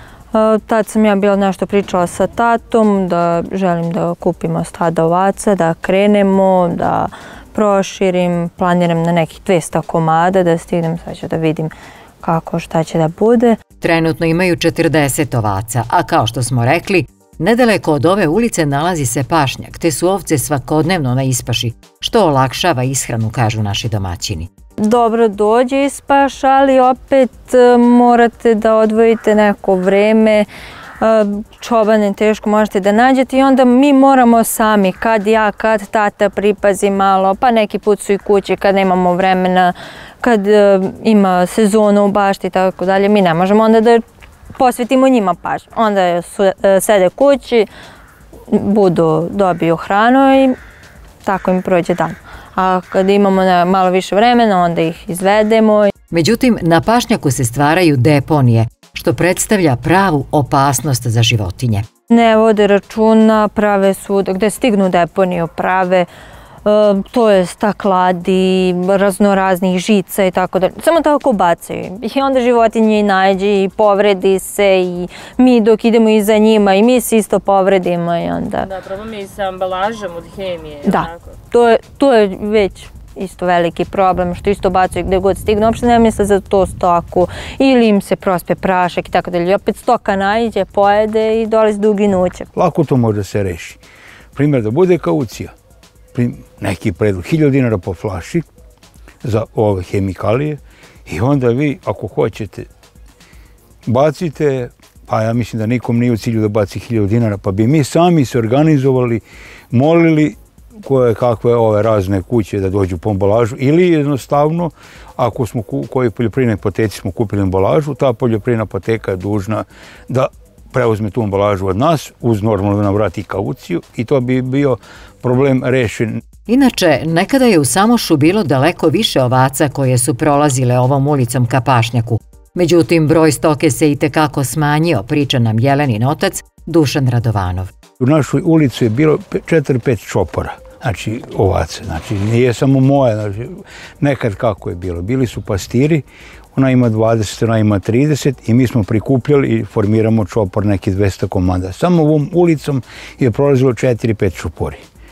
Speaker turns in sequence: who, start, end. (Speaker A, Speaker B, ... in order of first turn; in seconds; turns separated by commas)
Speaker A: 0.3-11.7, Speaker A: 12.2-13.6, Speaker B: 13.8-24.5, Speaker A: 24.8-30.5, Speaker A: 31.0-44.0, Speaker A: 44.5-47.7, Speaker A: 48.5-50.5, Speaker A: 51.2-55.9, Speaker B: 56.1-61.9, Speaker A: 62.1-66.1, Speaker A: 66.6-78.7, Speaker C: 78.6-81.2, Speaker A: 80.8-92.5, Speaker D: 92.5-93.8, Speaker D: 94.3-95.5, Speaker D: 96.1-98.5, Speaker D: 99.2-102.7, Speaker D: 103.9-126.2, Speaker B: 126.5-137.7, Speaker D: 138.0-154.8